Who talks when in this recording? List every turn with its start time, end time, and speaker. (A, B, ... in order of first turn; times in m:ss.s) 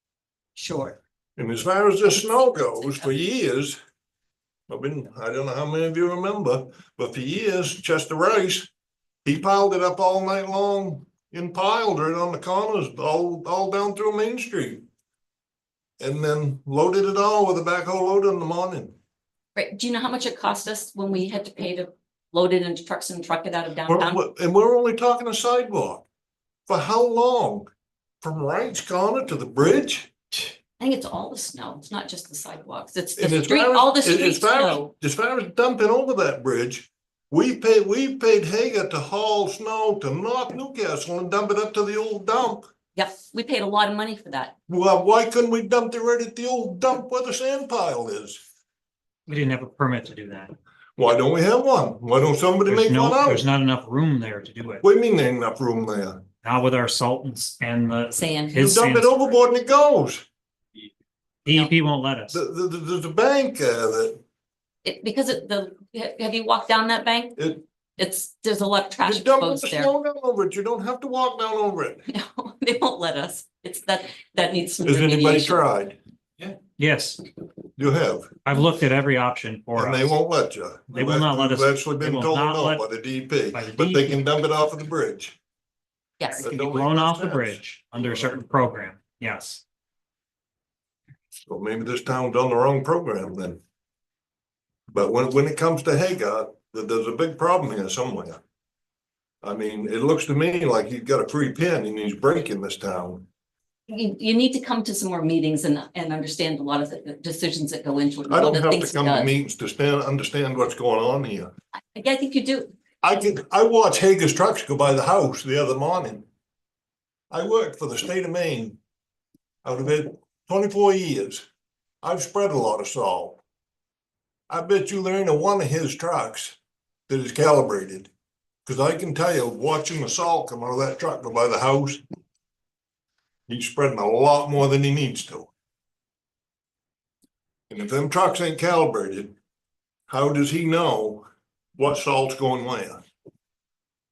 0:00.6-0:01.0 A
0:01.4-0:03.8 B
0:04.7-0:08.7 B
0:09.2-0:14.8 B
0:16.0-0:19.0 B
0:19.6-0:24.2 A
0:23.9-0:26.0 B
0:26.7-0:27.7 B
0:28.2-0:30.1 B
0:30.8-0:34.9 A
0:33.2-0:42.7 B
0:43.0-0:44.6 A
0:44.7-0:48.4 B
0:49.3-0:50.5 C
0:51.0-0:53.4 B
0:52.7-0:54.8 C
0:54.8-0:56.2 B
0:56.4-0:59.2 C
0:58.2-0:58.6 A
0:58.6-1:00.2 B
1:01.5-1:02.4 C
1:02.3-1:04.2 B
1:04.8-1:09.9 A
1:09.0-1:12.0 B
1:12.1-1:15.6 A
1:14.8-1:16.0 B
1:16.8-1:17.2 C
1:17.8-1:18.4 B
1:18.4-1:20.2 C
1:19.7-1:25.4 B
1:20.9-1:22.9 C
1:23.5-1:24.2 C
1:26.2-1:26.5 A
1:26.4-1:28.4 B
1:26.4-1:29.6 C
1:31.5-1:33.6 B
1:34.9-1:38.4 B
1:39.4-1:43.3 B
1:43.9-1:49.3 A
1:48.3-1:51.5 B
1:52.0-1:52.7 A
1:53.0-1:56.3 B
1:57.3-1:58.8 B
1:59.6-2:01.5 B
2:02.0-2:03.4 B
2:04.5-2:06.6 B
2:07.1-2:08.1 B
2:08.6-2:12.0 B
2:13.5-2:15.5 B
2:17.7-2:19.4 B
2:20.1-2:21.3 B
2:21.8-2:23.0 B